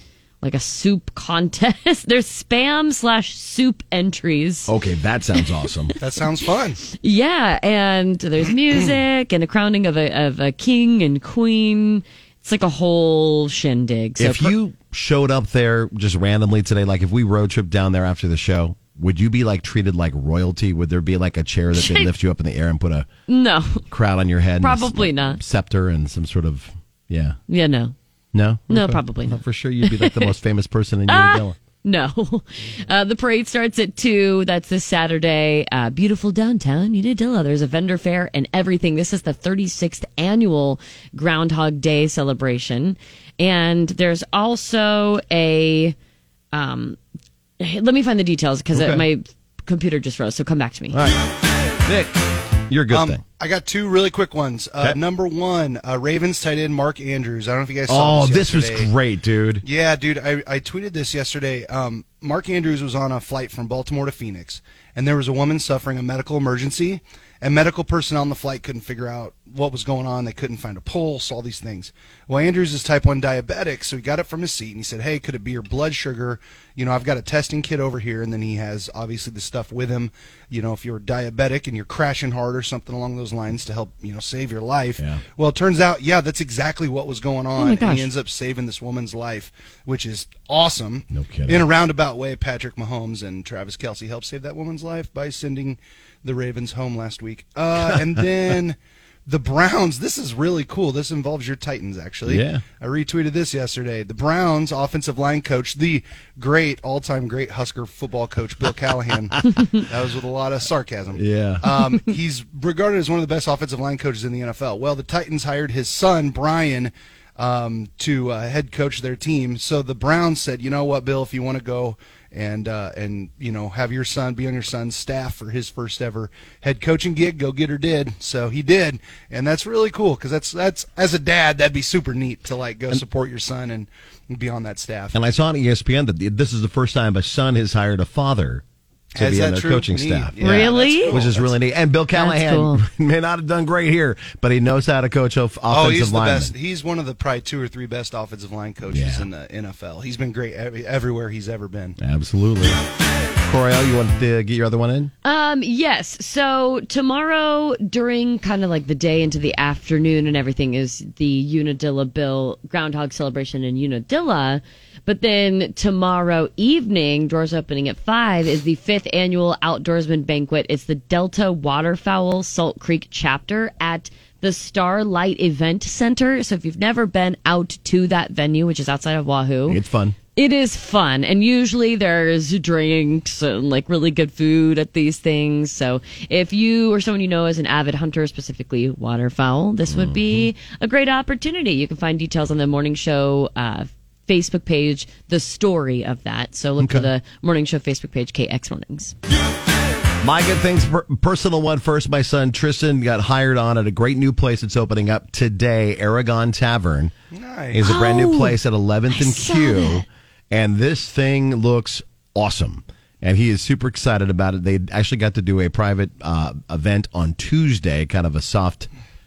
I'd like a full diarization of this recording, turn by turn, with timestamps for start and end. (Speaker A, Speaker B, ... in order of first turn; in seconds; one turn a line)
Speaker A: 0.4-4.7
Speaker B: 4.7-6.0
Speaker C: 6.0-6.8
Speaker A: 6.9-14.5
Speaker B: 14.2-23.1
Speaker A: 21.7-22.1
Speaker A: 23.3-23.9
Speaker B: 23.9-27.4
Speaker A: 24.6-25.4
Speaker A: 27.5-27.9
Speaker B: 28.3-31.6
Speaker A: 28.7-30.3
Speaker A: 31.1-46.0
Speaker A: 46.5-47.0
Speaker A: 47.6-51.0
Speaker B: 48.7-49.1
Speaker B: 50.9-53.2
Speaker C: 52.9-58.9
Speaker B: 57.9-59.6
Speaker C: 59.6-135.2
Speaker A: 87.6-88.1
Speaker B: 91.1-91.7
Speaker B: 102.2-102.6
Speaker B: 111.2-111.7
Speaker B: 135.1-138.6
Speaker C: 139.2-141.5
Speaker B: 139.2-146.5
Speaker A: 140.4-141.2
Speaker A: 142.1-142.8
Speaker C: 145.7-152.0
Speaker B: 148.9-149.3
Speaker B: 152.0-152.8
Speaker B: 153.4-155.1
Speaker A: 155.2-179.8
Speaker B: 179.7-180.2
Speaker A: 180.3-199.2
Speaker B: 189.9-190.5
Speaker B: 196.8-197.1
Speaker B: 200.2-207.1
Speaker C: 207.3-207.9
Speaker B: 207.7-218.9
Speaker A: 207.8-208.6
Speaker A: 209.1-210.1